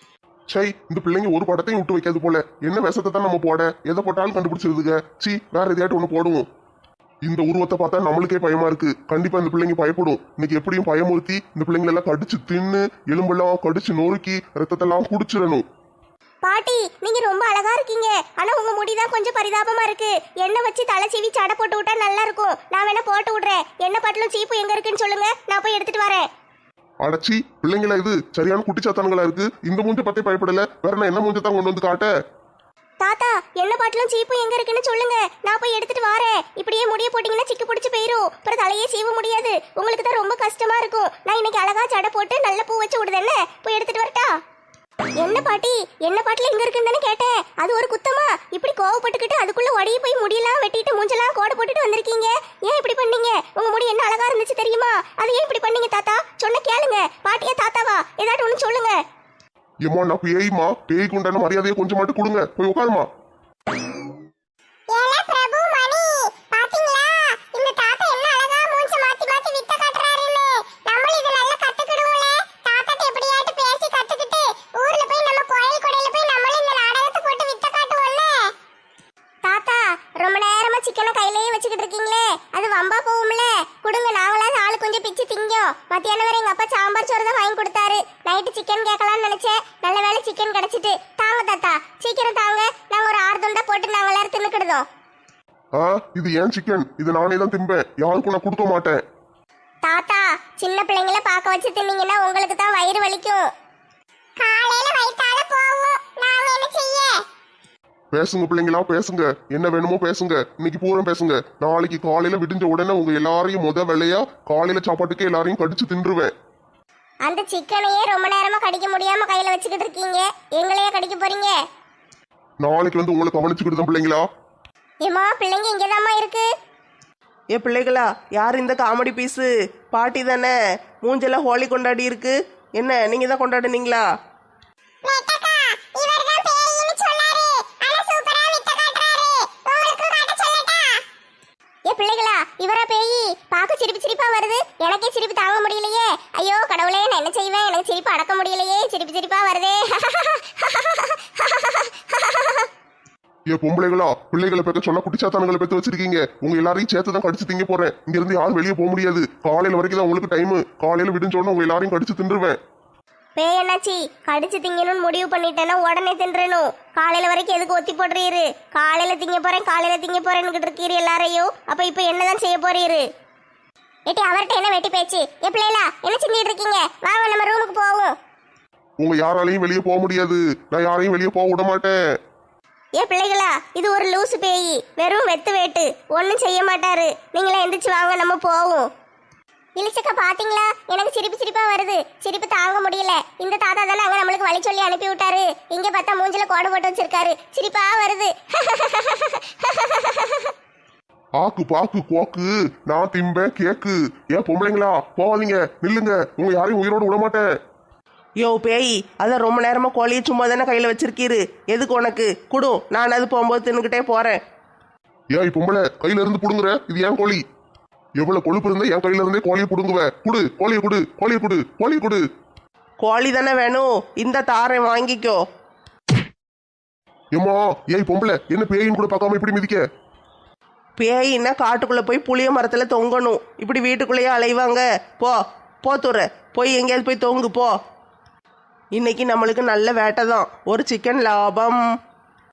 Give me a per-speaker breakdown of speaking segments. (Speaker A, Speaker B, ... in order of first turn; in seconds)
Speaker A: 0.5-6.5, 7.2-15.6, 27.0-32.1, 59.8-63.1, 95.8-99.0, 108.1-116.3, 122.6-124.2, 153.5-162.6, 179.0-181.9, 201.4-207.4, 215.3-217.4, 218.2-222.2, 227.3-229.8
Speaker B: 16.4-26.3, 33.0-44.3, 45.1-59.0, 64.9-78.5, 79.4-94.8, 99.8-103.5, 104.4-107.2, 117.2-121.6, 125.0-126.5, 135.0-141.0, 141.8-152.7, 163.3-173.0, 174.1-178.1, 183.0-188.9, 189.8-200.5
Speaker C: 127.5-134.0, 208.4-214.4, 223.0-225.4, 231.0-237.7, 238.9-241.8